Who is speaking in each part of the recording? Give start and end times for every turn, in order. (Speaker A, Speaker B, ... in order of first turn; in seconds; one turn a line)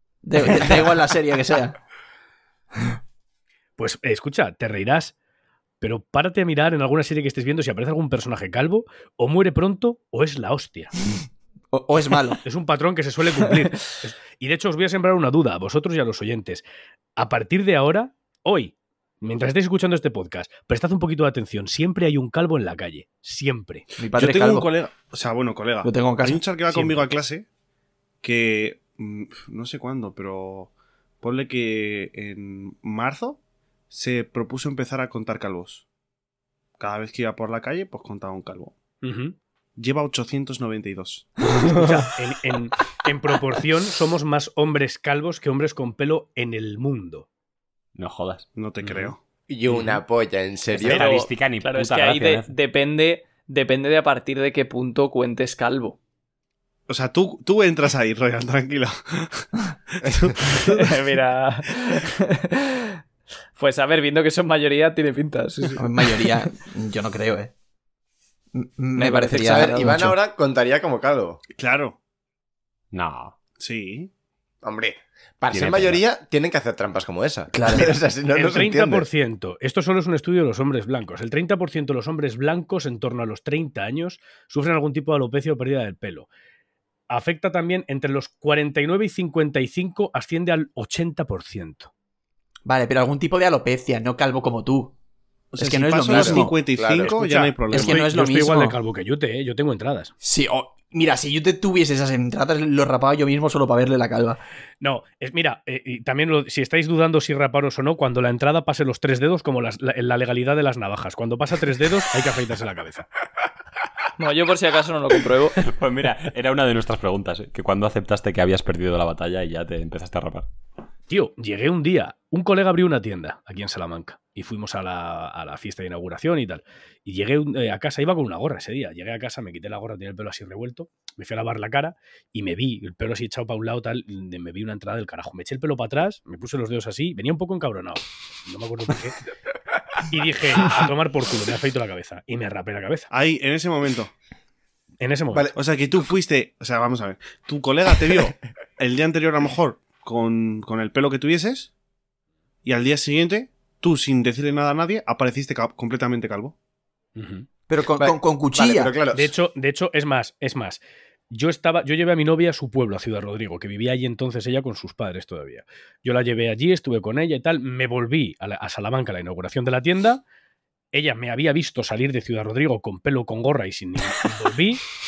Speaker A: 0.2-1.8
Speaker B: 3.8-5.1
Speaker B: 5.8-10.9
Speaker A: 11.7-12.4
Speaker B: 12.4-16.6
Speaker B: 17.2-23.9
Speaker A: 24.0-24.7
Speaker C: 24.1-27.5
Speaker A: 25.8-27.0
Speaker C: 28.2-33.4
Speaker C: 33.9-35.8
Speaker C: 36.8-38.7
Speaker B: 39.0-39.4
Speaker C: 39.8-41.3
Speaker B: 41.7-47.3
Speaker D: 48.0-48.5
Speaker C: 48.6-49.2
Speaker B: 48.8-49.1
Speaker E: 49.5-51.2
Speaker D: 49.7-50.0
Speaker D: 50.8-52.5
Speaker F: 50.8-56.0
Speaker C: 56.9-59.5
Speaker C: 60.0-60.9
Speaker F: 60.7-63.0
Speaker F: 63.6-66.5
Speaker A: 65.8-67.5
Speaker A: 68.5-70.2
Speaker F: 69.0-69.7
Speaker E: 69.3-71.4
Speaker C: 71.6-72.0
Speaker D: 72.9-73.3
Speaker C: 73.6-74.1
Speaker E: 74.6-79.1
Speaker D: 75.5-76.0
Speaker A: 77.5-78.0
Speaker B: 78.3-86.3
Speaker B: 87.1-91.9
Speaker A: 92.7-94.9
Speaker C: 95.5-98.1
Speaker A: 95.6-96.6
Speaker E: 96.1-97.2
Speaker B: 97.0-100.1
Speaker A: 97.7-98.8
Speaker A: 100.2-104.4
Speaker B: 104.8-113.1
Speaker F: 114.2-115.7
Speaker D: 115.6-120.5
Speaker B: 121.1-139.2
Speaker B: 140.0-143.1
Speaker C: 143.1-144.1
Speaker B: 145.0-145.5
Speaker C: 145.5-151.7
Speaker C: 152.7-156.6
Speaker B: 157.2-157.5
Speaker A: 157.7-158.9
Speaker E: 158.0-159.3
Speaker B: 159.1-170.2
Speaker B: 170.9-174.8